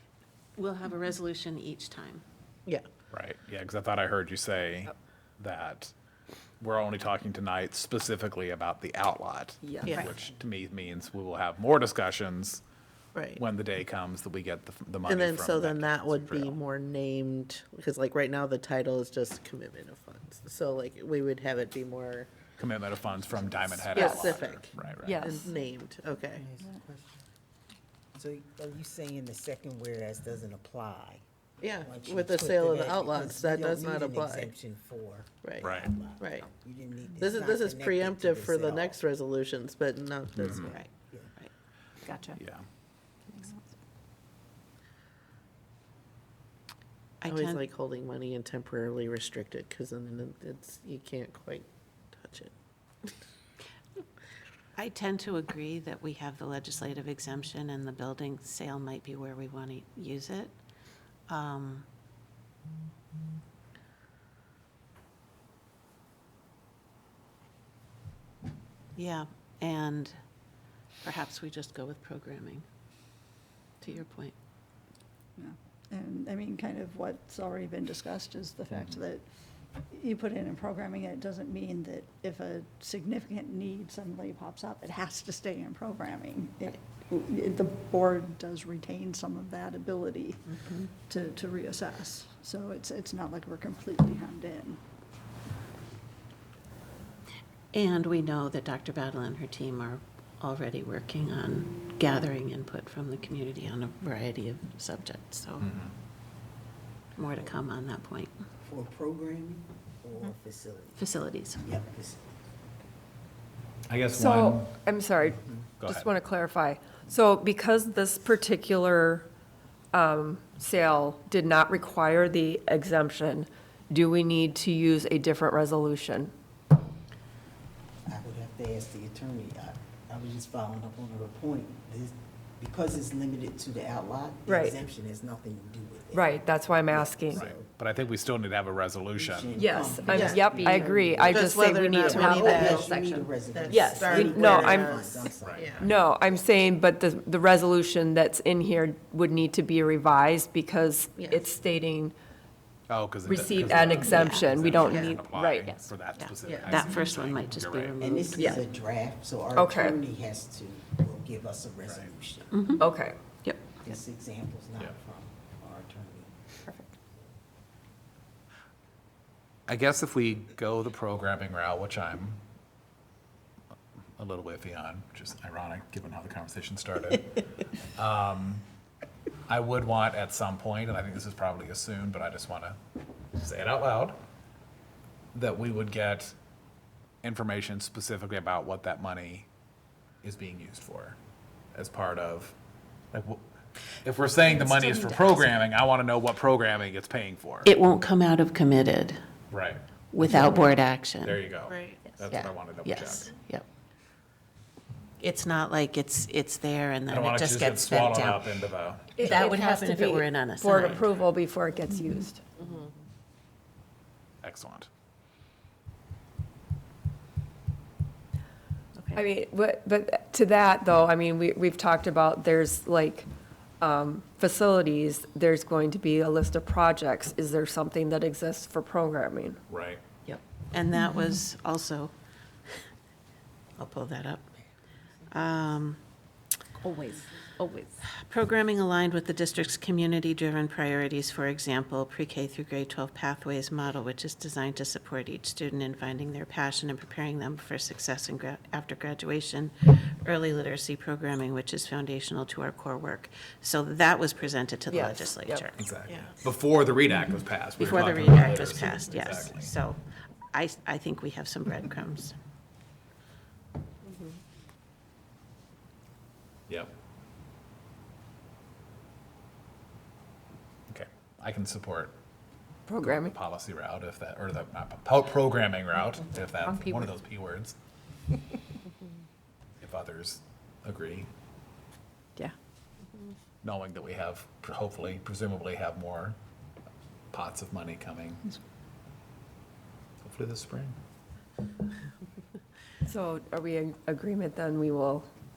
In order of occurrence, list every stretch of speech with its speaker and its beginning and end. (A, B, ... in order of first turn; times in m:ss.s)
0:00.6-0:02.2 A
0:03.1-0:05.9 B
0:06.6-0:12.6 B
0:09.6-0:10.1 C
0:13.1-0:13.4 D
0:13.3-0:16.6 B
0:15.1-0:22.3 D
0:22.6-0:25.3 B
0:23.8-0:26.4 D
0:25.0-0:25.5 C
0:26.3-0:27.2 E
0:28.1-0:31.2 E
0:31.6-0:34.5 D
0:31.8-0:39.0 E
0:35.4-0:36.5 D
0:35.6-0:35.9 B
0:37.2-0:40.7 D
0:40.3-0:40.7 B
0:40.4-0:41.3 E
0:40.7-0:41.5 A
0:42.4-0:42.6 B
0:47.2-0:47.6 A
0:47.3-0:52.5 D
0:54.8-1:00.6 A
1:01.3-1:01.8 A
1:09.0-1:10.2 A
1:11.0-1:12.6 A
1:13.8-1:14.3 A
1:15.4-1:19.2 F
1:19.9-1:30.5 F
1:30.5-1:30.9 A
1:31.1-1:34.8 F
1:37.7-1:45.7 A
1:45.6-1:45.9 B
1:47.2-1:48.3 A
1:48.6-1:51.1 E
1:51.0-1:51.6 A
1:51.6-1:52.2 E
1:53.9-1:54.8 B
1:54.1-1:59.3 C
1:55.8-1:56.1 B
1:59.9-2:06.3 C
2:08.1-2:17.7 E
2:14.5-2:14.7 C
2:16.1-2:17.4 C
2:17.3-2:19.7 B
2:19.2-2:26.4 E
2:19.5-2:32.1 C
2:20.1-2:20.7 D
2:21.3-2:22.9 D
2:23.5-2:25.2 D
2:25.4-2:25.8 B
2:31.2-2:31.4 D
2:32.9-2:38.0 B
2:33.2-2:35.8 C
2:34.0-2:34.5 A
2:34.8-2:35.2 D
2:36.2-2:38.6 A
2:36.4-2:36.7 C
2:38.0-2:42.7 E
2:39.6-2:40.0 C
2:41.8-2:42.1 B
2:42.5-2:42.8 A
2:42.8-2:43.2 C
2:43.4-2:43.8 A
2:43.8-2:46.3 E
2:49.7-2:52.4 B
2:54.2-2:57.2 B
2:58.0-2:58.6 B
2:59.5-3:02.8 B
3:03.3-3:04.2 B
3:05.3-3:06.4 B
3:07.2-3:09.5 B
3:10.2-3:11.2 B
3:11.7-3:12.5 B
3:13.1-3:13.4 B
3:14.0-3:17.7 B
3:14.5-3:15.5 A
3:17.6-3:19.2 A
3:19.5-3:19.8 B
3:20.1-3:21.4 A
3:21.2-3:23.3 B
3:21.7-3:22.0 D
3:22.3-3:23.6 A
3:25.2-3:28.6 A
3:27.1-3:29.4 B
3:29.2-3:32.4 C
3:29.2-3:31.0 A
3:30.9-3:31.2 B
3:34.4-3:34.9 B
3:39.1-3:43.3 C
3:43.8-3:49.6 C
3:49.7-3:50.0 B
3:50.7-3:52.1 A
3:53.8-3:54.5 A
3:55.3-3:56.0 A
3:56.8-3:57.9 C
3:58.0-4:15.8 A
4:14.9-4:15.6 C
4:15.8-4:19.7 B
4:16.1-4:16.4 D
4:17.8-4:20.0 A
4:20.5-4:22.3 A
4:30.9-4:32.2 B
4:32.9-4:33.3 C
4:33.0-4:37.7 B
4:36.6-4:37.1 C
4:39.8-4:41.3 B
4:43.6-4:46.4 B
4:47.3-4:48.4 B
4:50.2-4:51.0 B
4:53.0-4:55.3 C